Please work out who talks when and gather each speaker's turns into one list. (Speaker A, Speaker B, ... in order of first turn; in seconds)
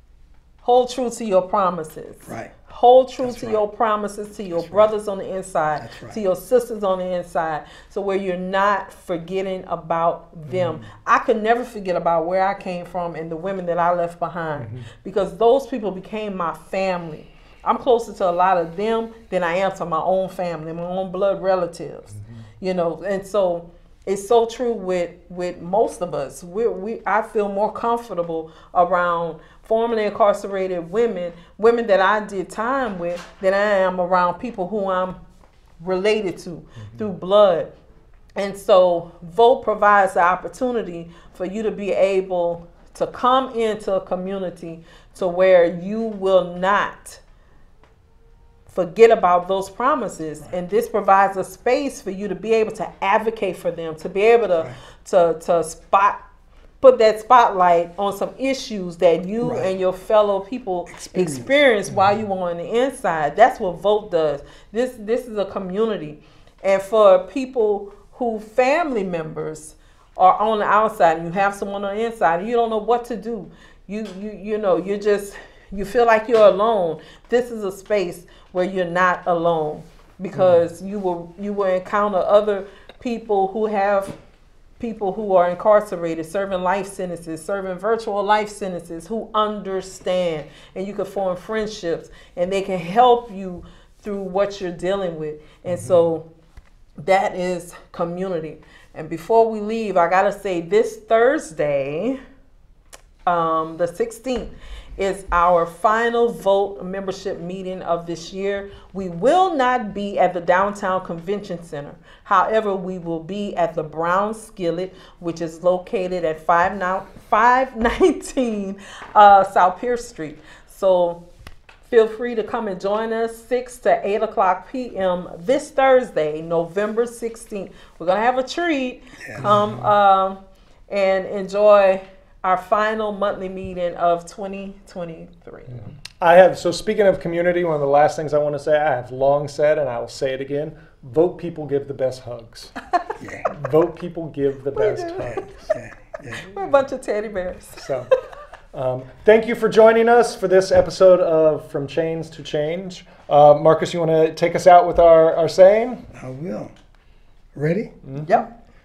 Speaker A: 0.6-35.2, 35.8-37.7, 38.4-47.2, 48.7-56.2, 56.8-84.2, 84.8-96.3, 97.0-102.2, 103.2-121.2, 121.8-135.8, 144.7-145.7, 146.3-147.9, 158.2-158.5
Speaker B: 2.3-2.5, 3.2-3.6, 4.5-4.9, 5.8-6.2, 59.4-59.7, 60.9-61.6, 129.2-129.6, 143.2-143.5, 145.7-146.4, 156.1-156.7, 157.5-157.9
Speaker C: 10.5-10.8, 14.6-14.8, 61.9-62.1, 80.3-80.6, 95.7-96.0, 129.4-129.8, 136.2-142.7, 143.5-145.5, 147.8-148.1, 148.7-156.0